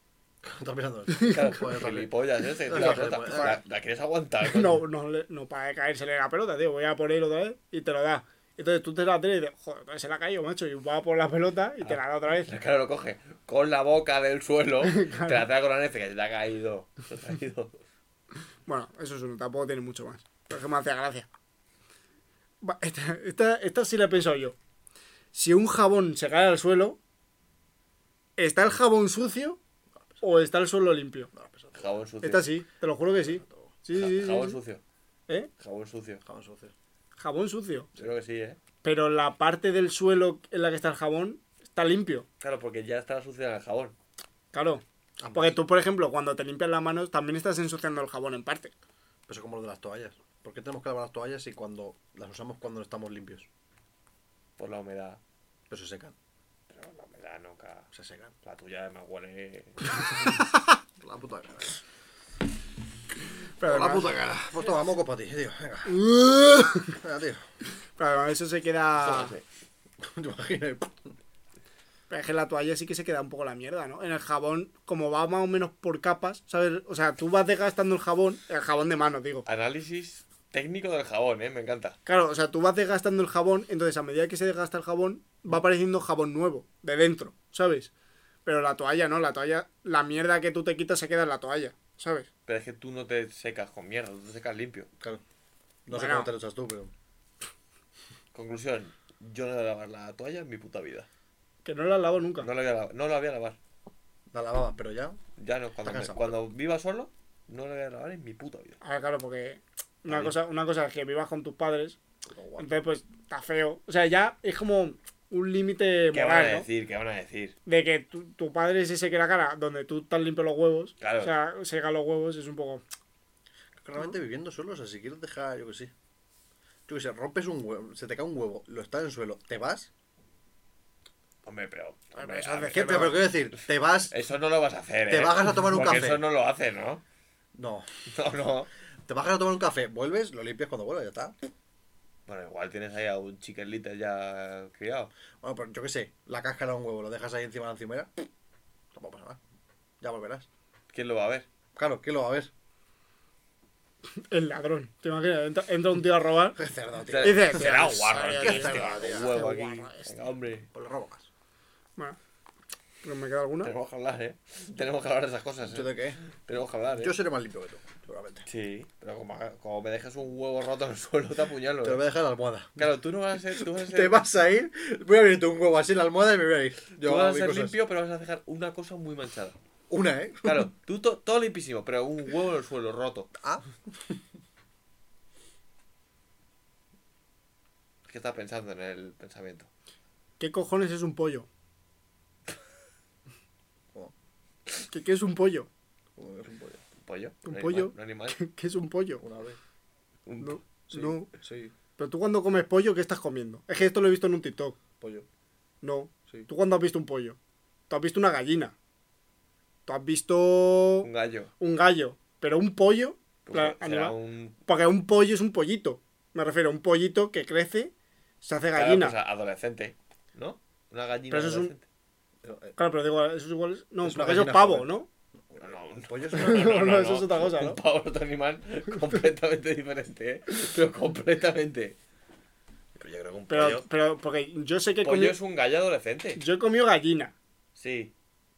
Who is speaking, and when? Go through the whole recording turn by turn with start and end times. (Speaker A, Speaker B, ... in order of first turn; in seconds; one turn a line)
Speaker A: 0.4-2.1
Speaker B: 1.1-1.5
Speaker C: 1.3-4.8
Speaker A: 2.6-3.6
Speaker B: 2.7-3.6
Speaker B: 4.4-12.5
Speaker C: 11.8-17.7
Speaker B: 14.8-15.5
Speaker B: 18.7-21.3
Speaker B: 22.6-24.6
Speaker B: 25.3-27.0
Speaker B: 28.4-29.6
Speaker B: 30.2-31.3
Speaker A: 31.3-32.0
Speaker C: 31.8-32.5
Speaker B: 32.2-34.6
Speaker A: 33.4-33.7
Speaker C: 34.0-34.8
Speaker C: 35.6-36.2
Speaker A: 36.2-36.7
Speaker B: 37.2-37.9
Speaker C: 38.0-38.6
Speaker B: 38.8-42.3
Speaker C: 42.4-44.0
Speaker B: 44.5-44.8
Speaker A: 45.2-45.6
Speaker B: 45.3-48.8
Speaker A: 49.3-53.5
Speaker C: 54.6-55.2
Speaker A: 55.7-56.1
Speaker C: 56.7-57.9
Speaker A: 57.9-58.3
Speaker C: 58.4-60.0
Speaker B: 60.2-60.6
Speaker A: 61.0-61.8
Speaker B: 63.6-64.1
Speaker A: 63.6-66.1
Speaker B: 65.9-67.0
Speaker A: 66.8-67.4
Speaker B: 68.0-69.3
Speaker C: 69.0-69.4
Speaker A: 70.0-71.1
Speaker B: 72.1-79.5
Speaker C: 79.5-82.0
Speaker B: 82.1-87.9
Speaker B: 88.5-92.3
Speaker C: 92.5-94.9
Speaker A: 95.9-96.9
Speaker B: 95.9-96.3
Speaker C: 98.3-101.1
Speaker B: 101.7-102.5
Speaker C: 102.4-103.6
Speaker A: 104.3-105.2
Speaker C: 105.4-108.8
Speaker A: 105.8-106.4
Speaker B: 108.8-112.0
Speaker C: 110.1-110.3
Speaker A: 112.3-112.9
Speaker B: 112.6-116.7
Speaker C: 116.1-117.5
Speaker B: 117.7-122.8
Speaker C: 121.0-121.3
Speaker A: 123.8-125.9
Speaker A: 126.9-129.9
Speaker C: 131.4-133.3
Speaker B: 132.2-133.2
Speaker A: 132.7-134.1
Speaker C: 134.1-137.0
Speaker A: 135.1-136.2
Speaker A: 137.6-137.9
Speaker C: 138.1-138.7
Speaker A: 139.1-141.4
Speaker C: 142.3-145.1
Speaker A: 145.4-148.2
Speaker A: 148.9-149.4
Speaker A: 150.0-150.5
Speaker C: 150.9-151.5
Speaker A: 151.8-152.5
Speaker B: 154.2-156.6
Speaker A: 156.6-157.5
Speaker C: 157.1-160.7
Speaker B: 157.2-160.1
Speaker A: 158.4-159.3
Speaker A: 160.7-161.3
Speaker B: 163.0-163.7
Speaker C: 163.6-167.1
Speaker A: 165.6-166.2
Speaker A: 167.0-168.5
Speaker C: 168.5-172.0
Speaker A: 171.8-172.9
Speaker C: 172.8-174.2
Speaker A: 173.6-177.8
Speaker C: 177.0-179.6
Speaker A: 179.9-180.7
Speaker C: 180.4-183.3
Speaker A: 183.4-184.2
Speaker C: 188.1-189.7
Speaker B: 190.4-191.5
Speaker B: 194.9-195.7
Speaker A: 196.2-196.8
Speaker C: 197.0-198.4
Speaker B: 197.4-199.2
Speaker A: 199.2-199.6
Speaker C: 200.3-200.6
Speaker B: 200.4-201.3
Speaker A: 200.9-201.7
Speaker B: 202.0-204.8
Speaker A: 205.0-205.3
Speaker B: 205.8-207.4
Speaker B: 207.9-208.7
Speaker B: 209.9-214.2
Speaker C: 211.0-211.5
Speaker C: 213.5-214.6
Speaker B: 214.7-219.2
Speaker C: 218.8-221.8
Speaker B: 221.3-221.7
Speaker A: 222.4-222.8
Speaker B: 222.8-225.1
Speaker A: 224.0-224.9
Speaker A: 225.4-226.8
Speaker C: 225.6-232.0
Speaker B: 226.3-227.8
Speaker C: 233.0-233.8
Speaker B: 233.5-235.4
Speaker C: 235.0-236.4
Speaker B: 236.4-237.3
Speaker C: 237.8-238.1